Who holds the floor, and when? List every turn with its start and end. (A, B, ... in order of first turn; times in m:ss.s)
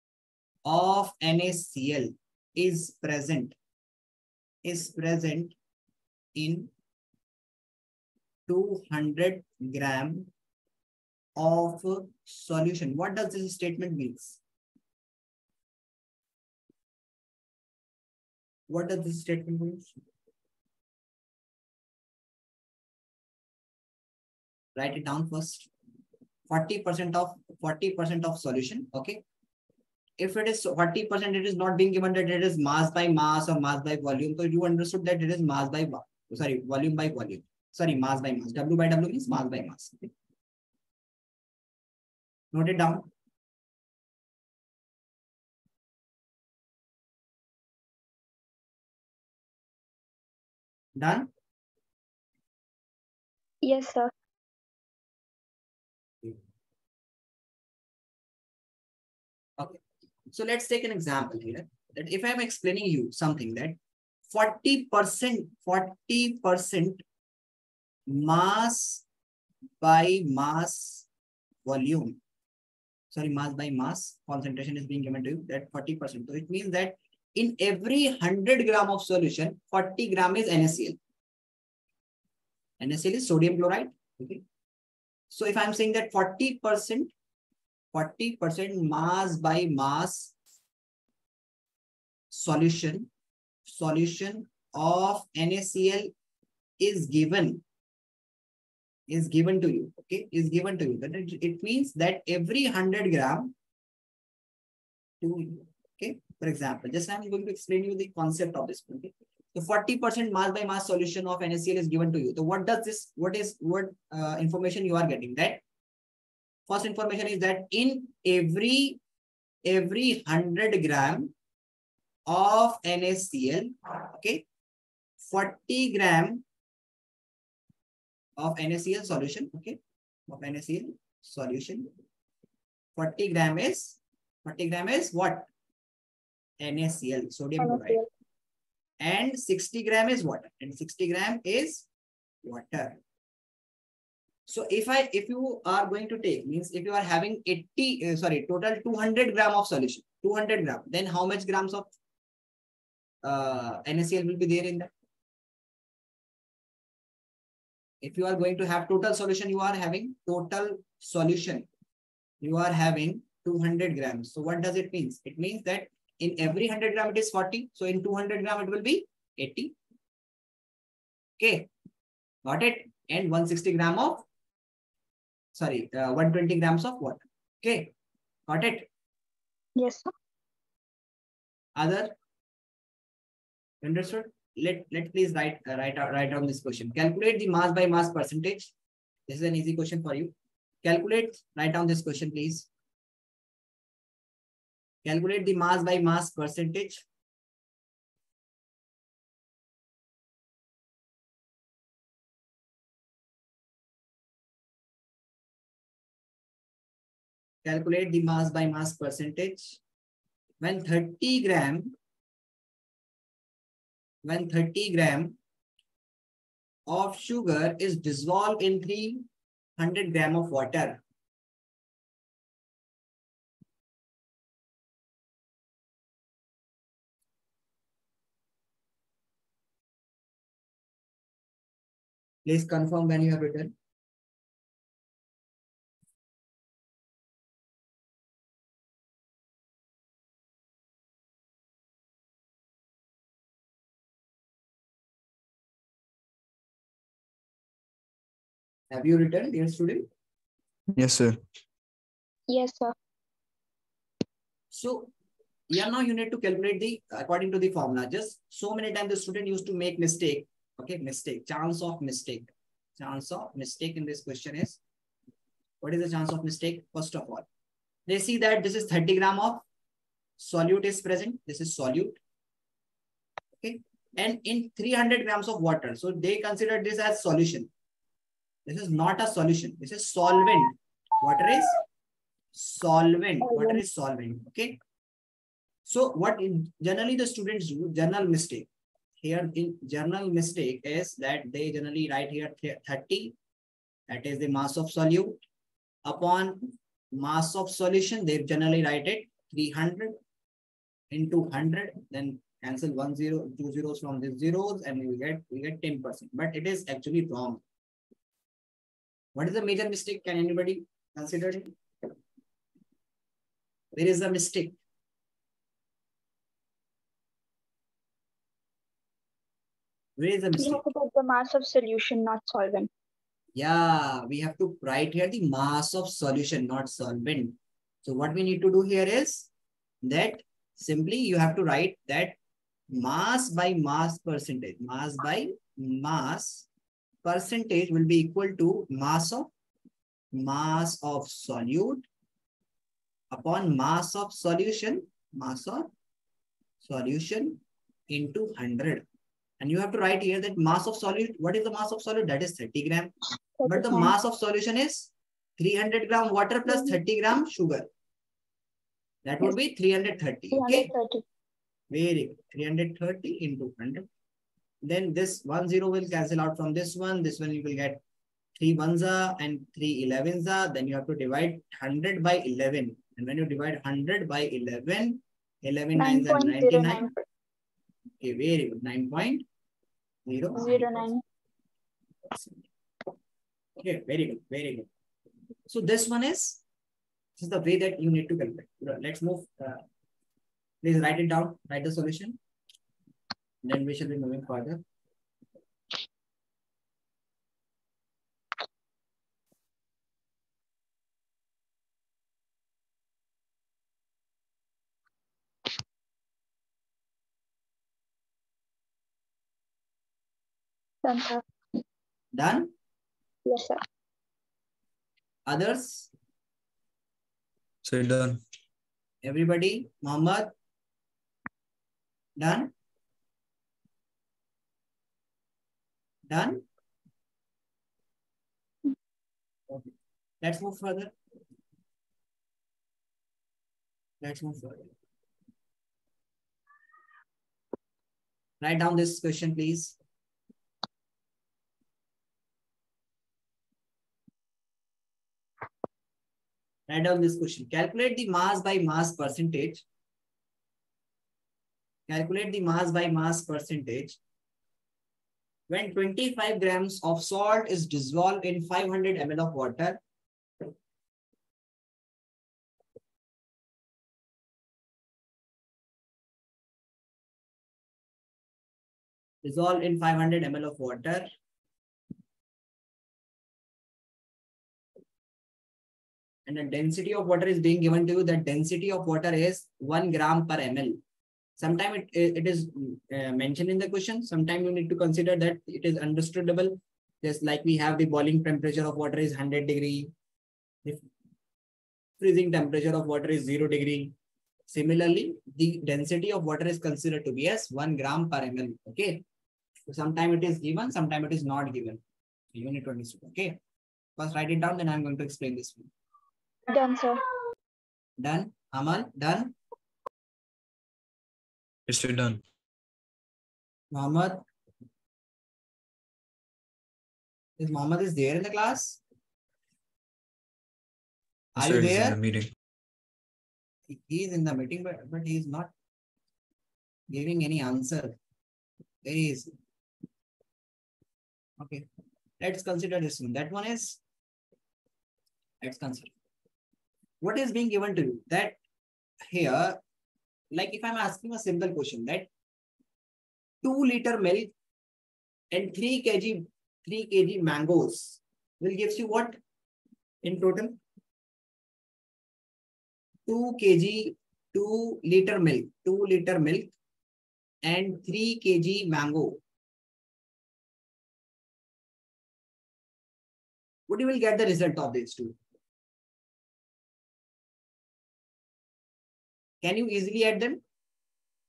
0:00.6-0:03.6 A
0:04.6-0:05.6 A
0:06.4-0:06.7 A
0:08.5-0:10.3 A
0:11.4-0:14.4 A
0:18.7-0:20.0 A
0:24.8-0:25.7 A
0:26.5-0:29.2 A
0:30.2-0:40.1 A
0:42.5-0:43.1 A
0:51.0-0:51.3 A
0:53.6-0:54.1 B
0:59.6-1:03.8 A
1:04.3-1:07.0 A
1:08.1-1:09.0 A
1:09.8-1:11.1 A
1:11.6-1:12.2 A
1:13.1-1:21.0 A
1:22.8-1:24.4 A
1:25.3-1:27.1 A
1:27.9-1:30.4 A
1:32.3-1:33.1 A
1:33.7-1:36.1 A
1:36.8-1:37.6 A
1:39.1-1:43.6 A
1:45.2-1:55.6 A
1:56.7-1:59.0 A
1:59.6-2:01.3 A
2:02.3-2:04.4 A
2:05.2-2:06.4 A
2:08.4-2:11.9 A
2:13.0-2:15.5 A
2:16.6-2:18.0 A
2:17.6-2:18.0 B
2:19.0-2:21.9 A
2:22.4-2:23.0 A
2:24.5-2:31.9 A
2:33.2-2:34.9 A
2:38.0-2:41.7 A
2:42.4-2:49.7 A
2:51.4-2:51.7 A
2:52.4-2:54.3 A
2:55.5-2:57.9 A
2:58.5-2:58.9 A
2:59.8-3:00.1 B
3:01.8-3:02.2 A
3:03.8-3:08.7 A
3:09.3-3:12.7 A
3:15.0-3:17.0 A
3:27.6-3:29.8 A
3:30.6-3:32.0 A
3:34.2-3:35.4 A
3:36.9-3:39.2 A
3:39.8-3:41.0 A
3:52.4-3:53.7 A
4:08.9-4:10.1 A
4:11.0-4:11.4 C
4:12.5-4:12.9 B
4:14.7-4:15.1 A
4:15.7-4:24.8 A
4:25.8-4:27.5 A
4:28.1-4:29.6 A
4:30.4-4:32.2 A
4:33.6-4:37.7 A
4:38.7-4:41.8 A
4:42.5-4:44.8 A
4:45.8-4:48.7 A
4:49.2-4:53.4 A
4:54.1-4:55.4 A
4:56.0-5:00.2 A
5:01.1-5:07.6 A
5:09.4-5:11.8 A
5:13.9-5:14.8 A
5:20.2-5:20.9 A
5:20.6-5:22.9 B
5:23.6-5:29.5 A
5:30.0-5:32.4 A
5:32.9-5:36.7 A
5:37.2-5:39.5 A
5:40.3-5:42.1 A
5:43.3-5:45.9 A
5:46.8-5:49.0 A
5:49.6-5:53.1 A
5:53.6-5:54.1 B
5:53.7-5:57.9 A
5:56.7-5:56.9 B
5:59.2-6:00.9 A
6:00.5-6:01.2 B
6:01.9-6:04.1 A
6:04.8-6:08.0 A
6:08.6-6:17.1 A
6:16.0-6:17.2 B
6:18.2-6:19.5 A
6:20.3-6:21.1 A
6:20.6-6:21.2 B
6:22.3-6:22.7 A
6:23.8-6:24.9 A
6:25.7-6:26.6 A
6:27.4-6:29.8 A
6:30.8-6:32.4 A
6:33.6-6:34.8 A
6:51.0-6:51.4 B
6:52.3-6:52.7 A
6:53.5-6:53.8 B
6:55.5-6:56.1 A
6:57.8-6:58.4 C
6:59.2-7:00.5 A
7:02.4-7:02.7 A
7:06.3-7:06.6 A
7:10.4-7:11.1 A
7:14.2-7:14.9 A
7:18.6-7:20.0 A
7:26.9-7:29.8 A
7:32.1-7:34.2 A
7:35.7-7:40.0 A
7:49.4-7:51.3 A
7:56.5-8:01.0 A
8:01.6-8:10.1 A
8:12.2-8:14.1 A
8:14.7-8:19.2 A
8:19.9-8:22.0 A
8:22.5-8:23.6 A
8:24.2-8:25.9 A
8:26.7-8:27.3 B
8:28.2-8:29.6 A
8:31.9-8:32.4 C
8:33.9-8:34.4 A
8:37.6-8:39.0 A
8:41.6-8:42.2 A
8:41.6-8:42.5 C
8:43.9-8:45.7 A
8:47.1-8:48.2 A
8:49.0-8:49.5 A
8:51.6-8:51.9 A
8:52.4-8:54.0 A
8:55.6-8:56.2 A
8:57.2-8:58.6 A
8:59.3-8:59.8 A
9:00.5-9:02.3 A
9:03.6-9:04.5 A
9:05.5-9:09.4 A
9:10.2-9:10.8 A
9:13.3-9:16.8 A
9:17.6-9:19.4 A
9:23.9-9:25.4 A
9:29.6-9:30.6 A